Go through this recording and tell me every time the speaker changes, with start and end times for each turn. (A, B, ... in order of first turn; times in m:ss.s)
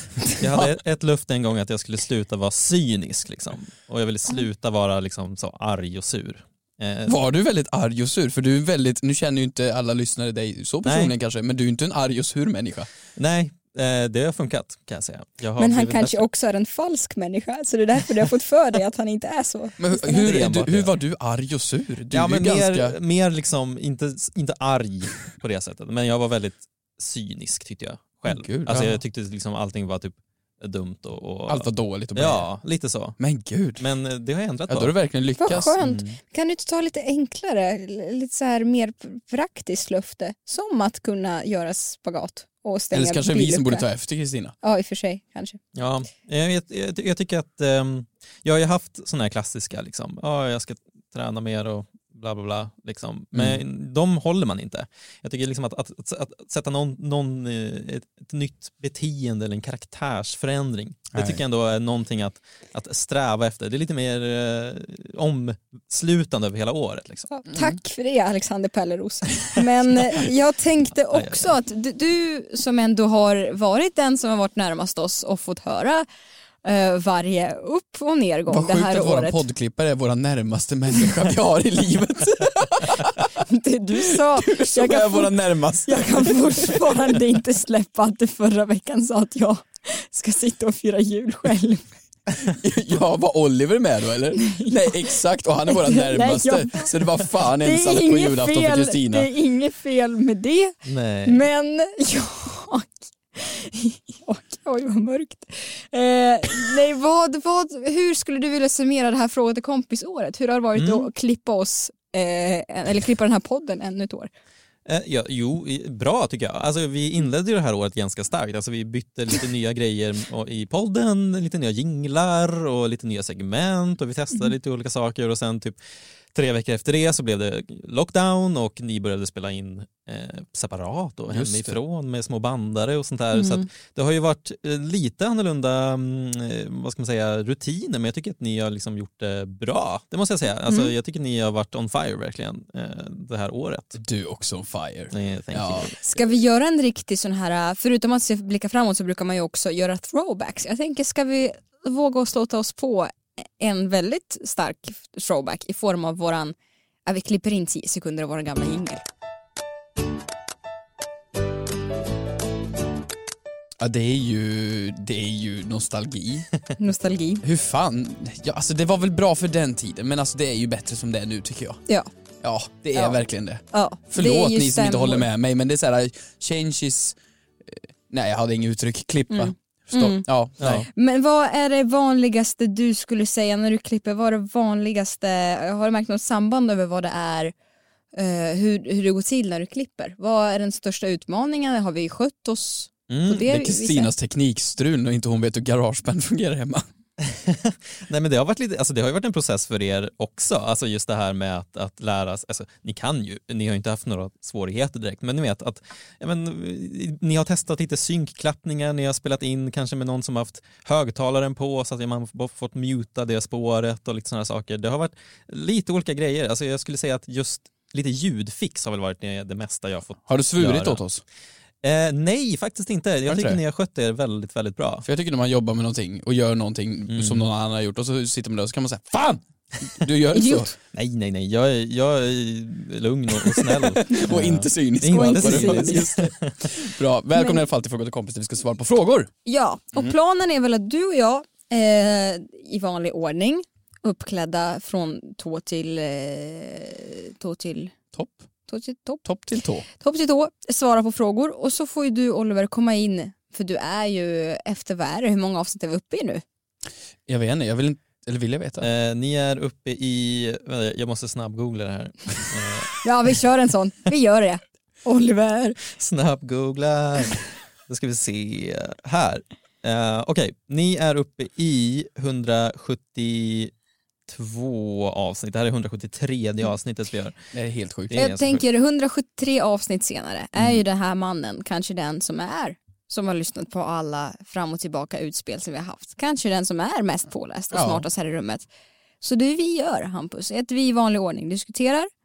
0:00.2-0:07.2 A
0:07.1-0:12.9 B
0:10.8-0:11.1 A
0:13.2-0:16.2 A
0:15.6-0:20.3 C
0:19.8-0:23.0 B
0:20.2-0:20.9 A
0:22.1-0:33.2 A
0:28.3-0:29.0 B
0:31.5-0:32.5 B
0:33.2-0:33.8 B
0:33.8-0:34.9 A
0:34.7-0:35.8 B
0:35.4-0:43.9 C
0:35.8-0:36.1 A
0:42.9-0:44.6 B
0:44.6-0:45.6 C
0:45.8-1:07.3 A
0:53.3-0:53.6 B
1:01.1-1:01.4 B
1:07.3-1:16.1 C
1:11.1-1:11.5 A
1:16.6-1:19.4 C
1:18.5-1:23.3 B
1:23.4-1:32.0 C
1:24.0-1:27.1 B
1:32.4-1:39.3 B
1:34.4-1:35.1 C
1:35.7-1:37.0 C
1:37.6-1:54.3 C
1:40.9-1:41.5 A
1:50.8-1:51.1 A
1:54.9-2:05.8 A
2:06.3-2:24.0 A
2:11.3-2:11.8 B
2:13.3-2:13.6 C
2:24.0-2:25.9 B
2:25.1-2:26.0 A
2:26.0-2:36.6 C
2:37.1-2:39.0 C
2:43.8-2:46.5 B
2:46.8-2:47.4 C
2:47.4-2:51.8 B
2:52.4-3:00.9 B
2:52.9-2:53.2 C
2:53.7-2:55.3 C
2:59.3-3:00.3 C
3:00.6-3:00.9 A
3:00.9-3:07.5 C
3:08.1-3:14.1 C
3:13.1-3:13.4 A
3:13.3-3:16.9 B
3:17.2-3:41.0 A
3:40.3-3:41.2 B
3:41.8-3:45.0 A
3:43.3-3:43.6 B
3:45.0-3:50.7 B
3:47.1-3:47.4 A
3:50.3-3:50.7 C
3:50.9-3:56.5 A
3:53.4-3:59.3 B
3:55.1-3:56.1 C
3:57.4-3:57.6 C
3:59.5-4:07.9 C
4:08.1-4:08.4 B
4:08.7-4:09.2 C
4:09.2-4:09.8 B
4:09.9-4:16.4 C
4:17.3-4:18.9 B
4:18.8-4:23.0 A
4:23.0-4:25.9 C
4:26.0-4:33.7 A
4:34.3-4:37.4 A
4:37.5-4:38.2 B
4:38.1-4:38.6 A
4:38.2-4:48.7 C
4:47.7-4:48.1 B
4:49.2-4:52.1 C